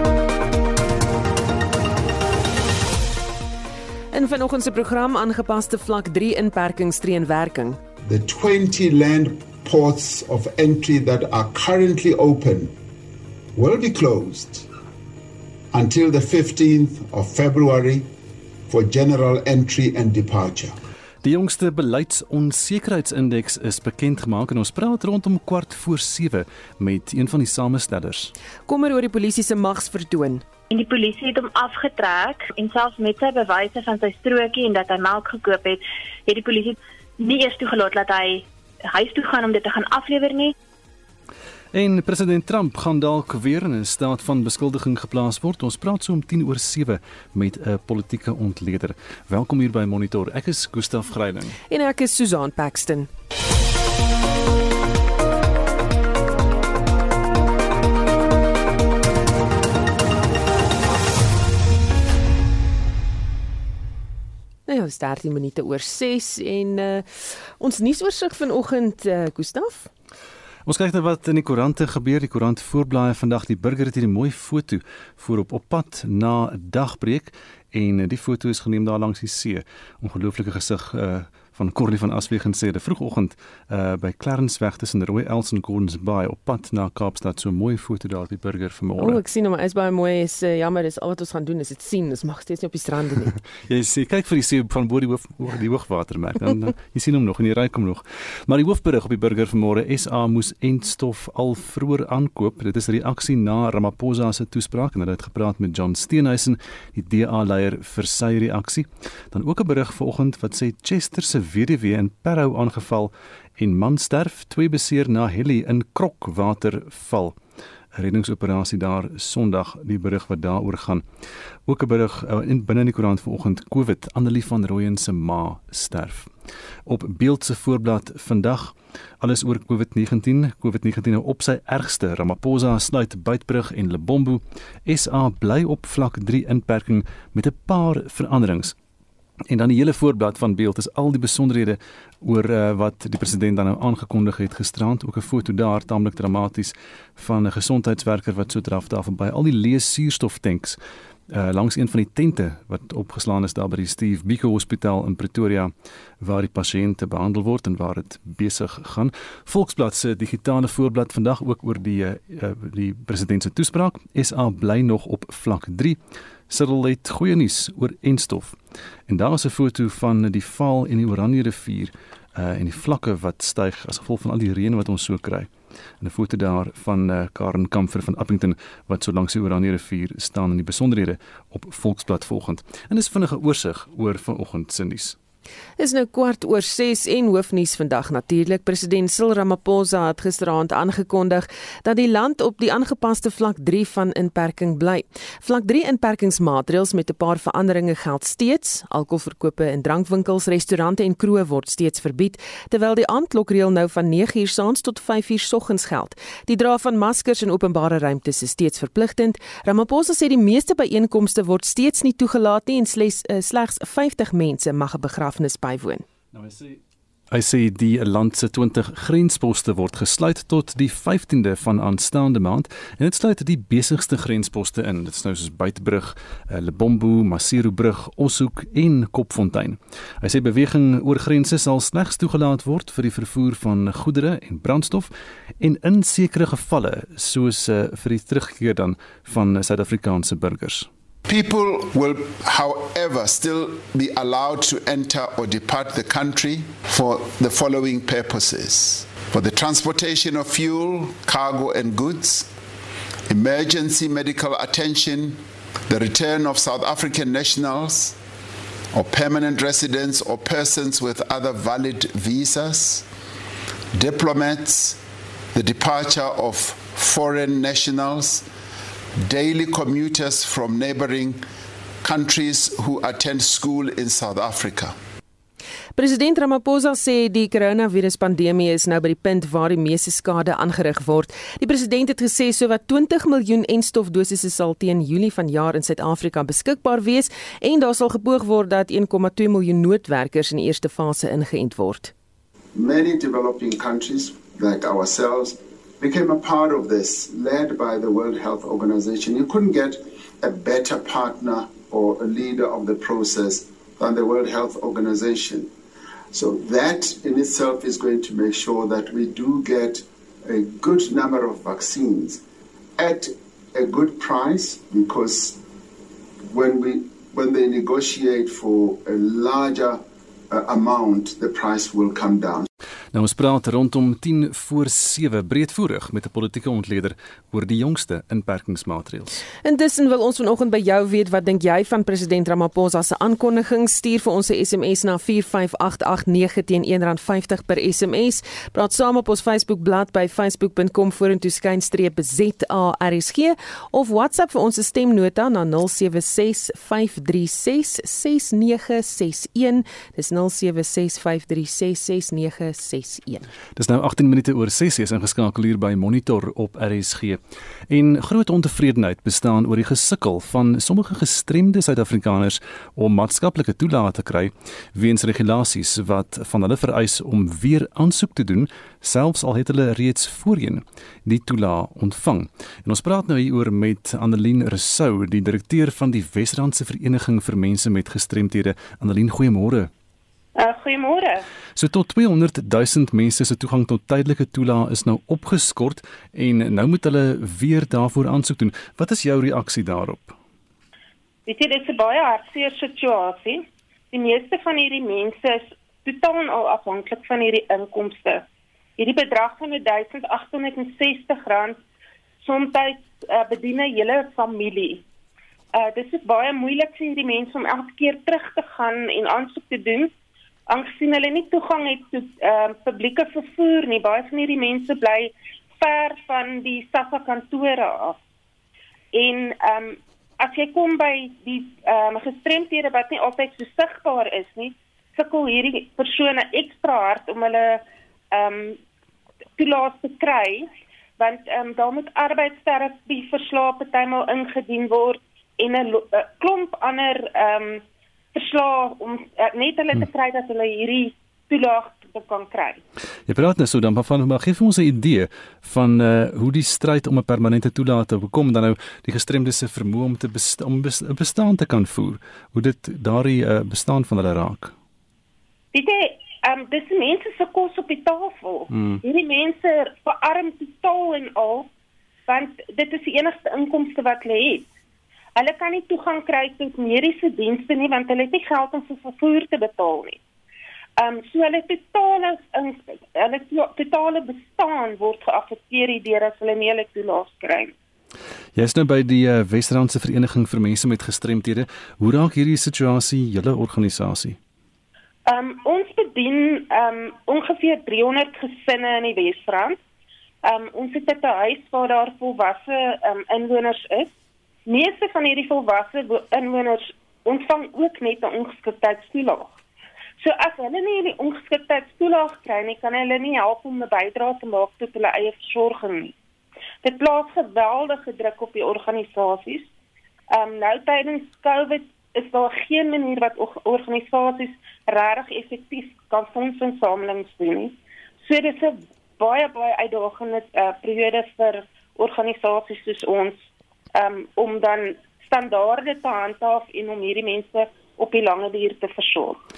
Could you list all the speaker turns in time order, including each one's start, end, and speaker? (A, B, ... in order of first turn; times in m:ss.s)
0:04.1-0:07.8 A
0:08.0-0:12.7 B
0:13.5-0:14.7 B
0:15.7-0:18.1 B
0:18.7-0:20.8 B
0:21.2-0:28.3 C
0:28.7-0:30.4 A
0:30.7-0:40.5 D
0:41.7-0:51.6 C
0:51.7-0:53.1 A
1:04.7-1:09.9 A
1:10.6-1:29.2 C
1:29.0-1:33.4 A
1:33.6-1:57.4 C
1:57.9-2:01.0 C
2:01.7-2:06.3 C
2:06.8-2:18.7 C
2:19.5-2:30.8 C
2:31.3-2:46.0 C
2:46.5-2:48.6 C
2:49.1-2:55.5 C
2:56.0-3:05.2 C
3:05.8-3:36.0 A
3:36.3-3:36.8 C
3:37.3-4:00.9 C
4:01.3-4:12.5 B
4:13.3-4:18.2 B
4:18.9-4:23.1 B
4:23.9-4:25.0 B
4:25.5-4:28.5 B
4:29.2-4:31.4 B
4:32.0-4:34.9 B
4:36.0-4:52.1 A
4:52.7-5:05.7 B
5:06.3-5:12.4 B
5:13.0-5:15.6 B
5:16.4-5:22.7 B
5:23.1-5:29.4 C
5:29.6-5:53.5 A
5:53.8-6:19.9 C
6:20.6-6:21.4 E
6:21.8-6:30.4 C
6:31.5-6:38.4 E
6:39.0-6:41.8 E
6:42.4-6:45.0 E
6:45.7-6:50.1 E
6:50.7-6:58.2 E
6:59.1-7:08.8 E
7:09.6-7:22.8 E
7:23.3-7:34.7 C
7:35.7-7:41.7 E
7:38.7-7:39.0 C
7:42.3-7:44.7 E
7:45.4-7:50.2 E
7:51.0-7:57.7 E
7:58.5-8:04.4 C
8:05.3-8:09.8 E
8:10.4-8:14.1 E
8:14.7-8:19.6 E
8:20.2-8:26.1 E
8:26.8-8:29.7 E
8:30.3-8:43.4 E
8:43.9-8:49.4 E